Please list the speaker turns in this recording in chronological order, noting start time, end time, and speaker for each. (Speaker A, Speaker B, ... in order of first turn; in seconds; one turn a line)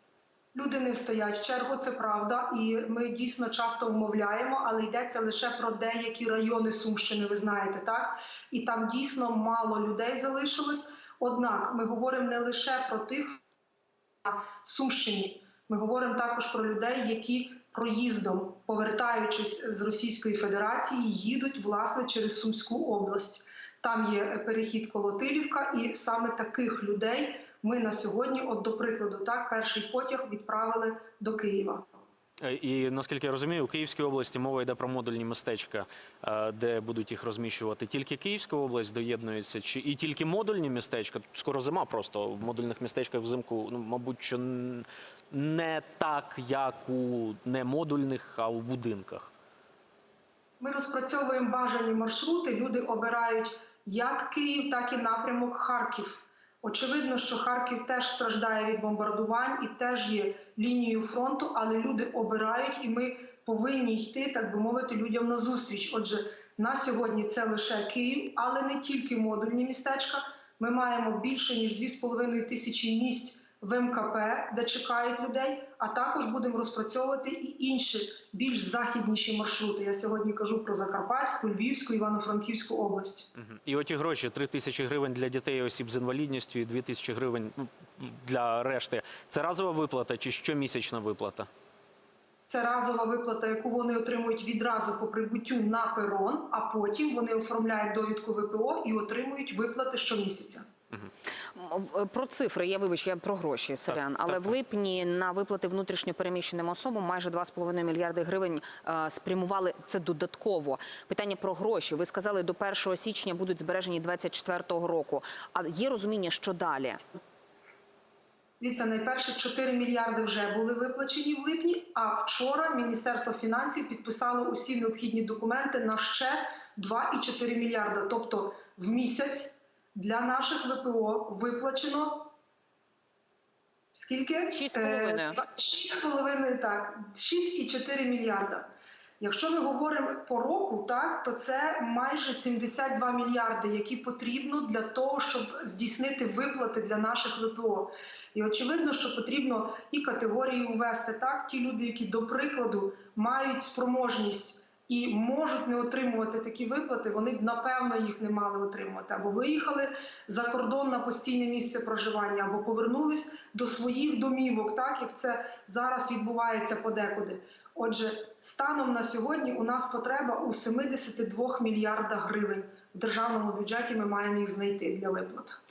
Speaker A: 0.5-13.4
Speaker A: 14.2-31.8
Speaker B: 32.4-49.3
Speaker A: 50.6-83.3
Speaker B: 83.4-91.5
Speaker A: 92.5-100.7
Speaker C: 101.5-117.0
Speaker A: 118.6-132.3
Speaker A: 133.9-138.7
Speaker C: 134.5-135.4
Speaker A: 139.2-175.6